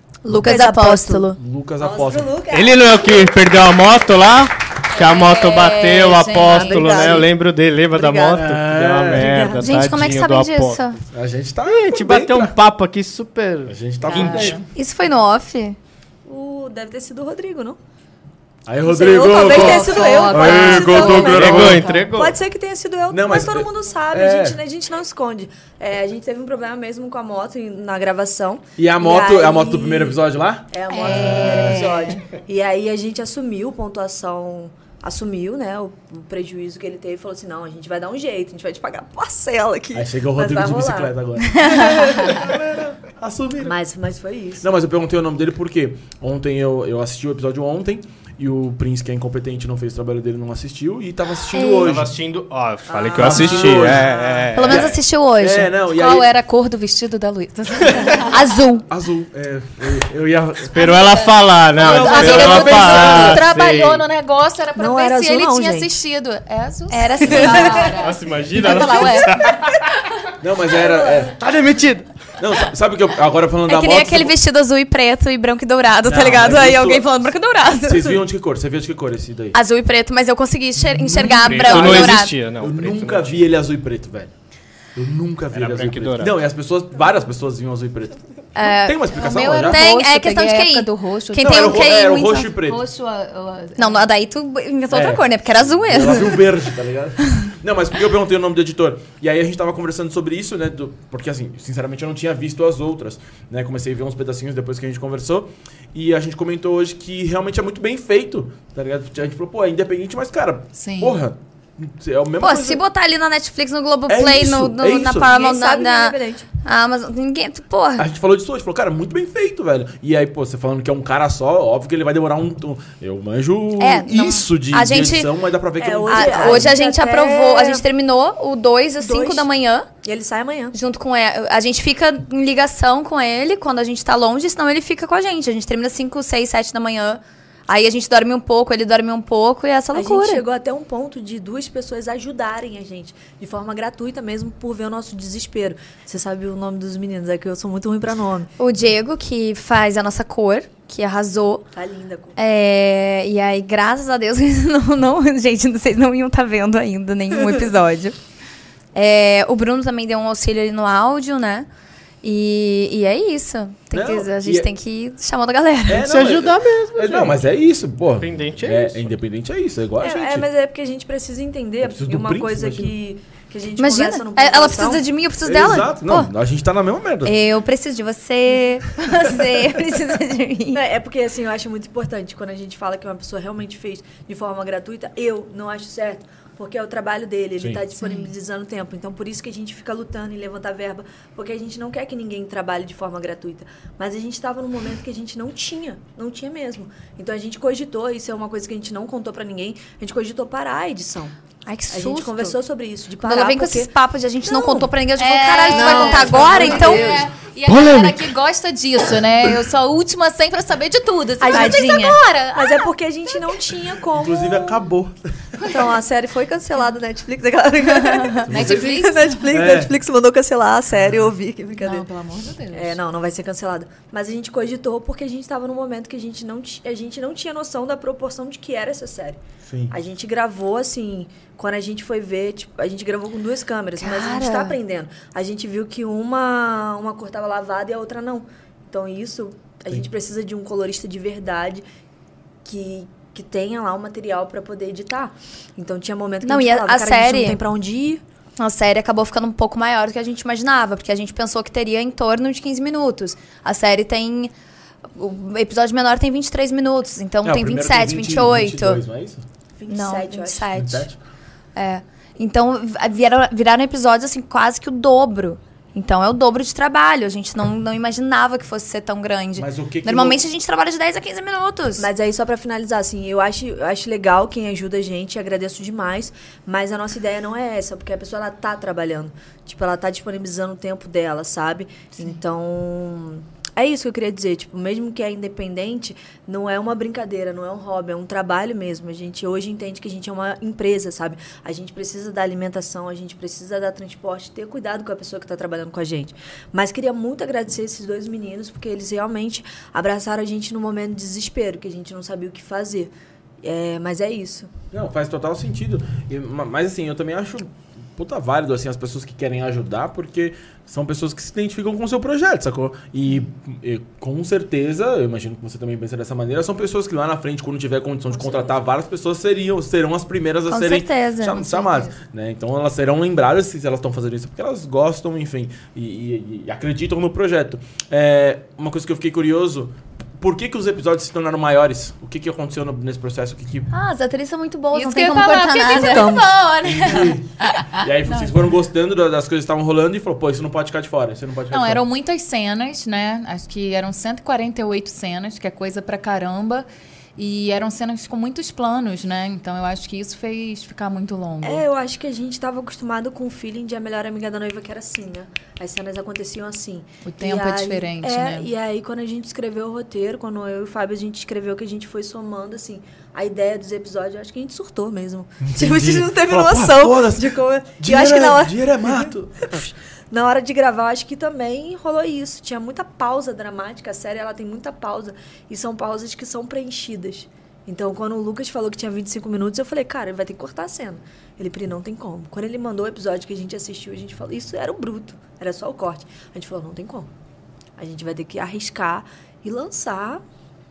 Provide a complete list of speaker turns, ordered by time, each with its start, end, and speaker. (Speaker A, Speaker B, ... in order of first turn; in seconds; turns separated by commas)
Speaker A: 0.2-1.4, Speaker B: 0.3-3.4, Speaker C: 1.4-2.4, Speaker D: 2.5-10.9, Speaker E: 4.9-7.2, Speaker B: 6.4-7.3, Speaker B: 7.9-8.5, Speaker C: 8.3-9.6, Speaker B: 9.1-9.6, Speaker A: 9.6-11.0, Speaker C: 11.1-12.5, Speaker D: 11.6-14.5, Speaker C: 13.7-14.6, Speaker E: 14.1-14.7, Speaker B: 14.1-14.5, Speaker A: 14.7-15.8, Speaker B: 16.2-17.8, Speaker C: 18.6-22.0, Speaker B: 18.8-42.5, Speaker E: 19.3-21.8, Speaker D: 20.3-22.4, Speaker C: 23.1-24.6, Speaker C: 28.8-31.9, Speaker E: 31.0-32.1, Speaker A: 31.0-31.9, Speaker C: 39.9-43.7, Speaker B: 43.6-44.6, Speaker C: 44.6-52.1, Speaker A: 51.5-51.9, Speaker D: 51.8-54.9, Speaker B: 52.9-54.4, Speaker C: 53.1-56.3, Speaker A: 54.5-55.7, Speaker E: 55.9-58.4, Speaker A: 58.2-58.9, Speaker C: 58.9-60.8, Speaker D: 60.7-64.0, Speaker E: 60.7-69.8, Speaker C: 61.8-63.5, Speaker B: 64.8-66.0, Speaker A: 66.9-67.9, Speaker D: 67.3-69.9, Speaker B: 67.3-67.7, Speaker C: 70.4-71.4, Speaker B: 70.7-71.3, Speaker D: 71.3-72.1, Speaker C: 72.4-74.3, Speaker A: 73.7-78.2, Speaker C: 76.0-77.3, Speaker C: 77.8-79.6, Speaker A: 79.5-82.4, Speaker C: 80.8-84.3, Speaker D: 81.3-83.5, Speaker C: 84.9-89.8, Speaker D: 85.5-86.3, Speaker A: 88.5-92.5, Speaker E: 89.1-94.0, Speaker C: 91.4-92.8, Speaker A: 93.8-96.5, Speaker C: 94.9-112.8, Speaker E: 110.7-111.2, Speaker A: 112.4-118.1, Speaker C: 114.1-115.3, Speaker B: 115.1-116.5, Speaker C: 118.0-126.7, Speaker A: 123.8-125.3, Speaker B: 125.8-127.8, Speaker A: 126.1-129.9, Speaker B: 129.0-129.5, Speaker B: 130.0-130.7, Speaker A: 130.7-140.4, Speaker B: 139.9-148.5, Speaker A: 148.6-151.7, Speaker B: 151.7-152.4, Speaker A: 152.3-158.2, Speaker A: 158.9-161.7, Speaker A: 162.2-166.2, Speaker C: 163.9-164.7, Speaker C: 165.9-170.5, Speaker D: 166.0-167.4, Speaker D: 168.2-169.0, Speaker B: 170.0-175.0, Speaker C: 171.8-172.9, Speaker A: 173.8-176.3, Speaker C: 175.4-177.3, Speaker A: 177.2-180.8, Speaker B: 180.7-201.3, Speaker E: 188.0-188.3, Speaker A: 201.7-202.6, Speaker B: 201.9-203.9, Speaker A: 203.2-207.2, Speaker B: 204.4-204.9, Speaker E: 205.2-212.9, Speaker B: 205.7-207.3, Speaker C: 207.7-208.2, Speaker B: 211.4-214.8, Speaker A: 211.5-212.2, Speaker C: 214.1-215.5, Speaker E: 215.6-215.8, Speaker B: 215.7-222.1, Speaker C: 218.5-218.9, Speaker E: 218.5-219.5, Speaker C: 219.5-219.9, Speaker E: 221.8-223.0, Speaker B: 222.7-241.8, Speaker C: 229.7-229.9, Speaker A: 234.0-234.8, Speaker B: 242.6-248.2, Speaker A: 246.4-247.6, Speaker A: 248.6-254.5, Speaker A: 255.1-259.0, Speaker C: 257.4-259.4, Speaker B: 259.8-260.7, Speaker A: 259.9-261.1, Speaker C: 260.7-261.2, Speaker A: 261.7-272.1, Speaker C: 269.6-270.4, Speaker B: 272.0-304.7, Speaker C: 304.9-333.9, Speaker B: 318.3-318.8, Speaker A: 320.7-322.1, Speaker A: 333.9-336.5, Speaker E: 334.9-338.6, Speaker B: 335.9-336.5, Speaker C: 336.8-342.0, Speaker E: 341.7-351.8, Speaker B: 351.6-387.3, Speaker E: 357.2-358.7, Speaker C: 365.6-369.8, Speaker B: 388.0-390.4